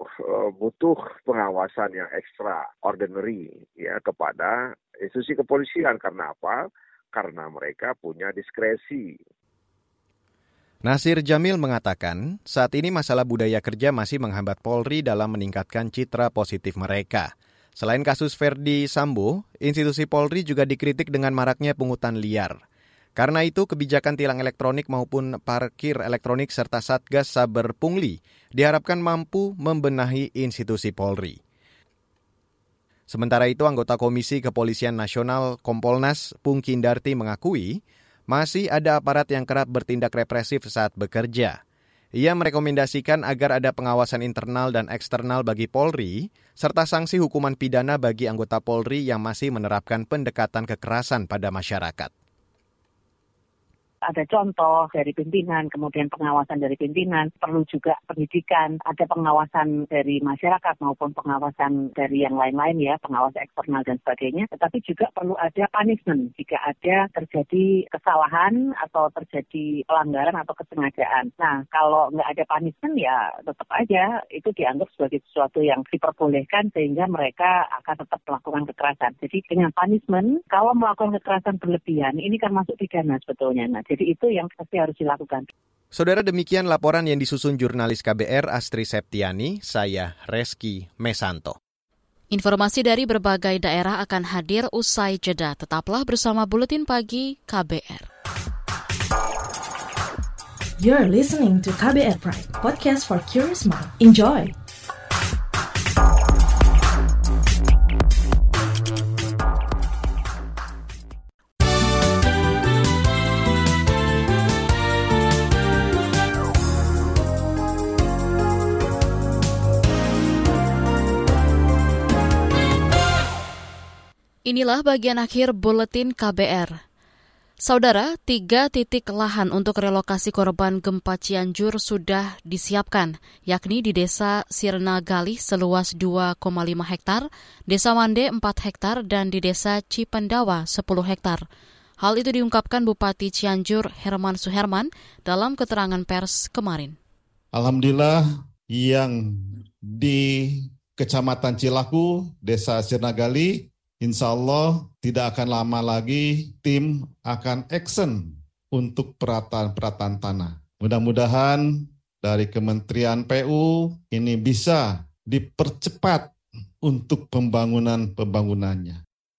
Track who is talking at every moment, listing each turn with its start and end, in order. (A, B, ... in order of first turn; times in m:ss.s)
0:00.2-0:09.2 A
0:10.8-0:22.6 B
0:23.2-0:31.4 B
0:33.1-0:41.6 B
0:42.2-0:52.1 B
0:54.1-1:25.5 C
1:25.9-1:31.6 B
1:32.3-1:38.1 D
1:40.8-1:44.5 E
2:04.5-2:06.7 D
2:07.6-2:21.4 D
2:22.0-2:27.0 D
2:27.5-2:28.2 F
2:28.7-2:49.0 F